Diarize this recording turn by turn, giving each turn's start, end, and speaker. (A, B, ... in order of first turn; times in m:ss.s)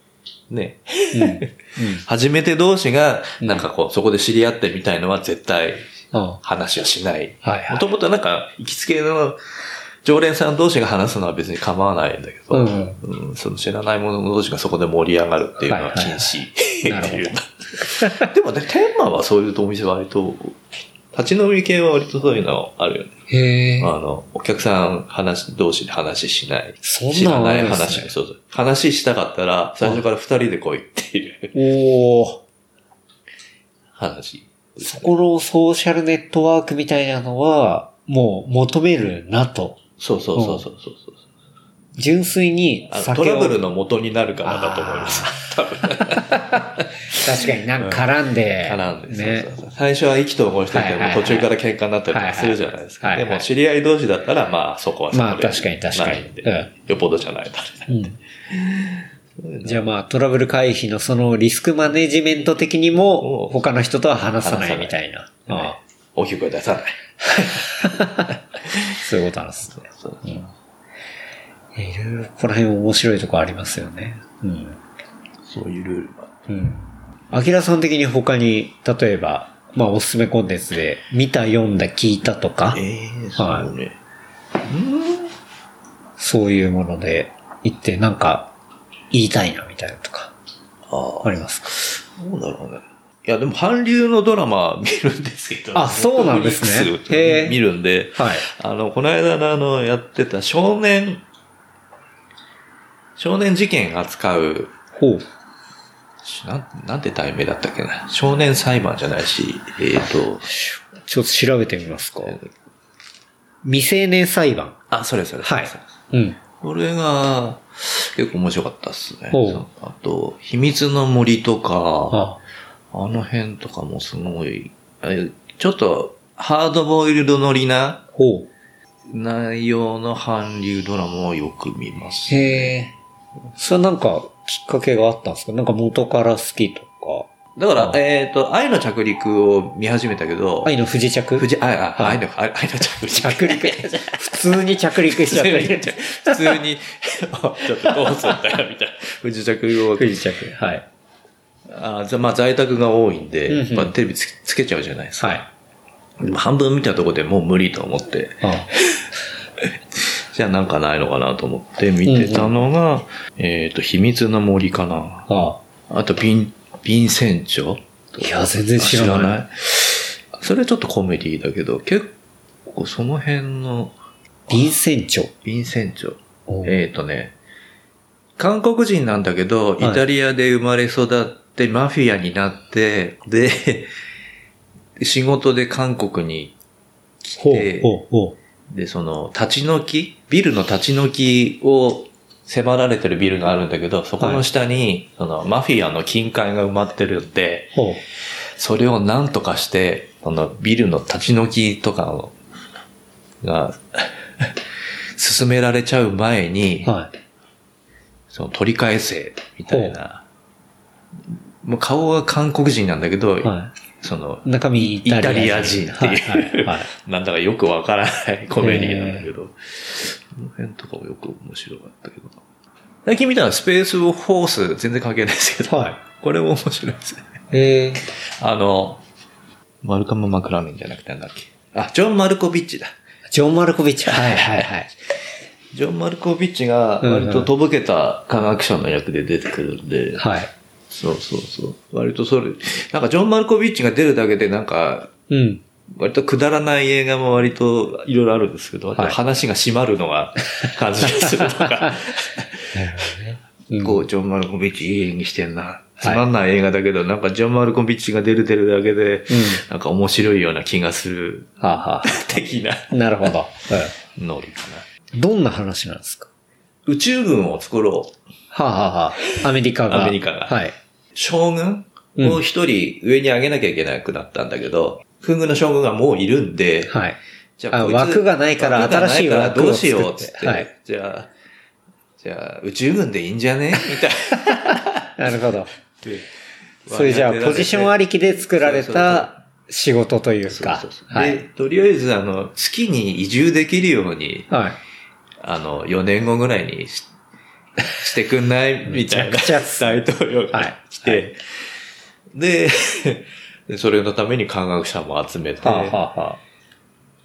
0:00.5-0:05.9 A
0:01.1-0:02.0 B
0:03.4-0:03.6 B
0:06.1-0:06.4 B
0:06.4-0:09.4 A
0:07.4-0:07.8 B
0:10.0-0:23.2 A
0:12.5-0:13.0 B
0:15.7-0:17.4 B
0:18.0-0:18.3 B
0:23.3-0:23.9 B
0:23.8-0:31.6 A
0:26.8-0:28.1 B
0:31.5-0:32.4 B
0:33.9-0:35.1 A
0:34.8-0:39.8 B
0:40.0-0:41.2 A
0:40.3-0:40.6 B
0:42.0-0:43.6 B
0:42.9-0:48.1 A
0:44.4-0:46.6 B
0:47.1-0:49.5 B
0:48.6-0:58.0 A
0:50.7-0:51.5 B
0:52.1-0:53.4 B
0:55.1-0:56.7 B
0:57.9-0:58.2 B
0:58.5-0:59.9 A
0:59.6-1:05.8 B
1:02.9-1:03.6 A
1:04.4-1:05.0 A
1:05.5-1:07.9 A
1:07.6-1:08.3 B
1:08.6-1:09.0 A
1:09.0-1:10.5 B
1:09.7-1:10.4 A
1:11.7-1:14.8 B
1:15.4-1:16.3 A
1:16.5-1:22.8 B
1:22.7-1:24.0 A
1:23.4-1:23.7 B
1:24.7-1:25.3 A
1:26.2-1:28.5 B
1:29.1-1:30.3 B
1:30.9-1:41.2 A
1:31.2-1:31.8 B
1:35.7-1:37.6 B
1:38.2-1:38.4 B
1:43.2-1:44.7 A
1:45.0-1:45.3 B
1:46.2-1:50.5 A
1:51.0-1:52.4 B
1:53.6-1:54.8 B
1:54.9-1:55.9 A
1:55.4-1:56.4 B
1:56.6-2:02.2 A
1:59.3-1:59.6 B
2:02.1-2:02.4 B
2:02.9-2:08.0 A
2:08.1-2:08.5 B
2:09.1-2:12.7 A
2:12.3-2:12.9 B
2:13.6-2:18.0 B
2:17.6-2:20.7 A
2:20.6-2:22.2 B
2:21.4-2:30.2 A
2:23.2-2:26.5 B
2:27.8-2:28.3 B
2:30.0-2:30.8 B
2:31.7-2:35.5 A
2:33.5-2:33.9 B
2:36.2-2:39.1 A
2:38.4-2:38.7 B
2:39.6-2:45.3 A
2:42.0-2:42.5 B
2:45.3-2:45.6 B
2:45.9-2:52.1 A
2:48.2-2:49.4 B
2:52.6-2:53.9 A
2:54.5-2:55.3 B
2:55.4-2:57.3 A
2:56.5-2:56.7 B
2:58.4-3:03.9 A
3:05.0-3:06.6 A
3:07.2-3:07.9 A
3:07.4-3:08.3 B
3:08.7-3:17.8 A
3:17.7-3:18.0 B
3:18.6-3:22.3 A
3:23.4-3:24.6 A
3:25.2-3:26.9 A
3:26.8-3:27.1 B
3:28.3-3:30.2 A
3:29.7-3:30.0 B
3:31.3-3:42.4 A
3:33.4-3:33.7 B
3:34.4-3:36.9 B
3:38.6-3:39.3 B
3:43.0-3:47.3 A
3:45.7-3:46.0 B
3:47.5-3:48.0 B
3:48.0-3:49.0 A
3:49.8-3:52.9 A
3:53.3-3:54.9 B
3:54.1-3:54.7 A
3:55.7-4:00.3 A
3:57.0-3:57.5 B
4:00.2-4:00.5 B
4:00.9-4:05.1 A
4:05.3-4:05.6 B
4:05.9-4:13.1 A
4:11.5-4:11.9 B
4:12.7-4:14.0 B
4:13.8-4:23.3 A
4:19.3-4:19.6 B
4:21.6-4:22.4 B
4:22.9-4:23.9 B
4:24.0-4:24.8 A
4:25.1-4:26.3 B
4:26.8-4:28.2 A
4:28.5-4:30.7 B
4:29.3-4:30.6 A
4:31.1-4:37.0 A
4:32.2-4:32.4 B
4:36.9-4:37.2 B
4:37.6-4:41.3 A
4:37.7-4:40.7 B
4:42.2-4:45.1 A
4:45.2-4:45.7 B
4:46.0-4:46.3 A
4:46.8-4:48.0 A
4:46.9-4:51.4 B
4:48.6-4:49.4 A
4:50.4-4:54.5 A
4:54.5-4:54.8 B
4:55.4-4:57.1 A
4:57.9-5:01.4 A
4:58.8-5:01.2 B
5:02.3-5:06.0 A
5:05.6-5:06.4 B